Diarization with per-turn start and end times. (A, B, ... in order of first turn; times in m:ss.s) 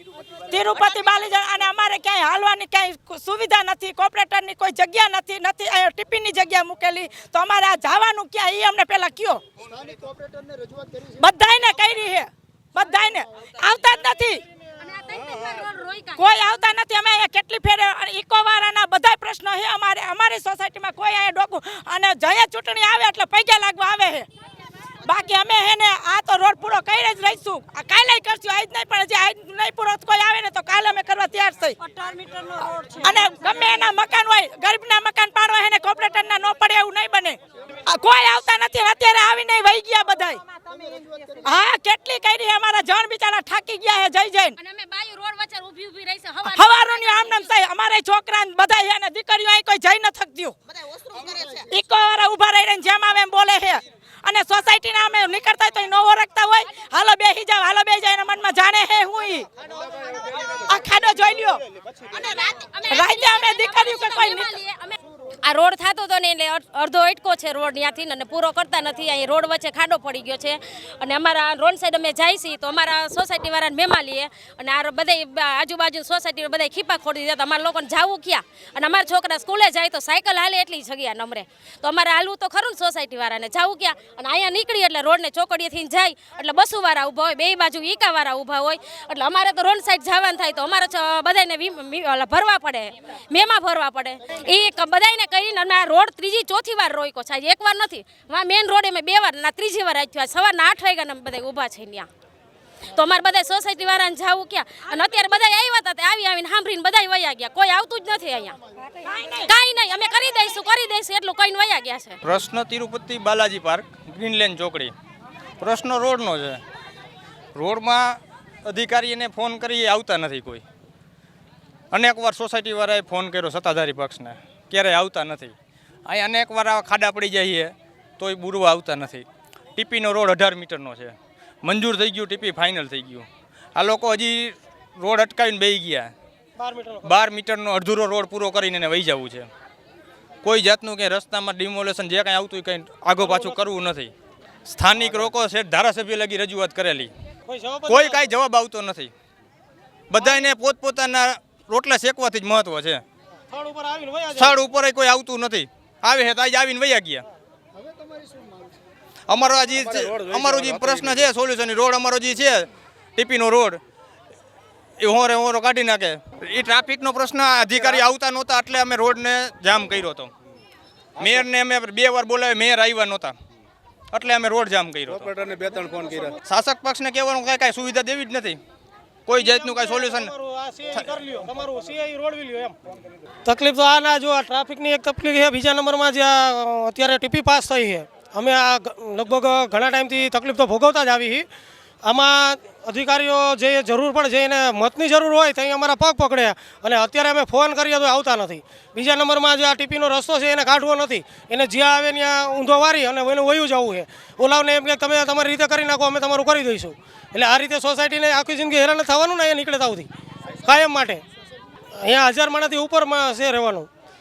0:00.5-0:09.4 A
0:09.7-0:11.0 B
0:11.2-0:14.4 A
0:14.8-0:16.2 C
0:16.2-0:24.3 A
0:25.0-0:31.8 A
0:33.0-0:40.4 A
0:40.7-0:41.4 B
0:41.4-0:44.6 A
0:44.6-0:47.4 C
0:46.4-0:50.6 A
0:51.2-0:51.6 B
0:51.7-0:59.5 A
1:00.6-1:01.6 A
1:02.1-1:42.1 C
1:02.9-1:04.5 A
1:42.9-1:48.6 C
1:49.0-1:49.5 A
1:49.4-1:52.2 C
1:52.2-1:54.9 D
1:55.6-1:56.6 D
1:57.6-2:00.6 D
2:01.9-2:05.6 D
2:06.1-2:16.1 D
2:16.6-2:17.2 E
2:17.0-2:19.5 D
2:20.4-2:24.1 D
2:23.2-2:23.6 E
2:24.7-2:27.1 D
2:27.5-2:28.3 E
2:27.9-2:29.1 D
2:30.1-2:33.0 D
2:33.5-2:34.6 E
2:34.4-2:37.3 D
2:37.8-2:38.7 B
2:39.3-2:43.8 D
2:40.0-2:41.2 F
2:45.0-2:50.3 D
2:51.2-2:53.4 D
2:54.1-2:55.3 D
2:55.1-2:56.3 F
2:56.5-2:58.6 D
2:59.3-3:00.3 D
2:59.4-3:02.8 E
3:03.4-3:11.5 E
3:12.0-3:30.1 E
3:30.6-3:31.2 E
3:32.0-3:33.9 E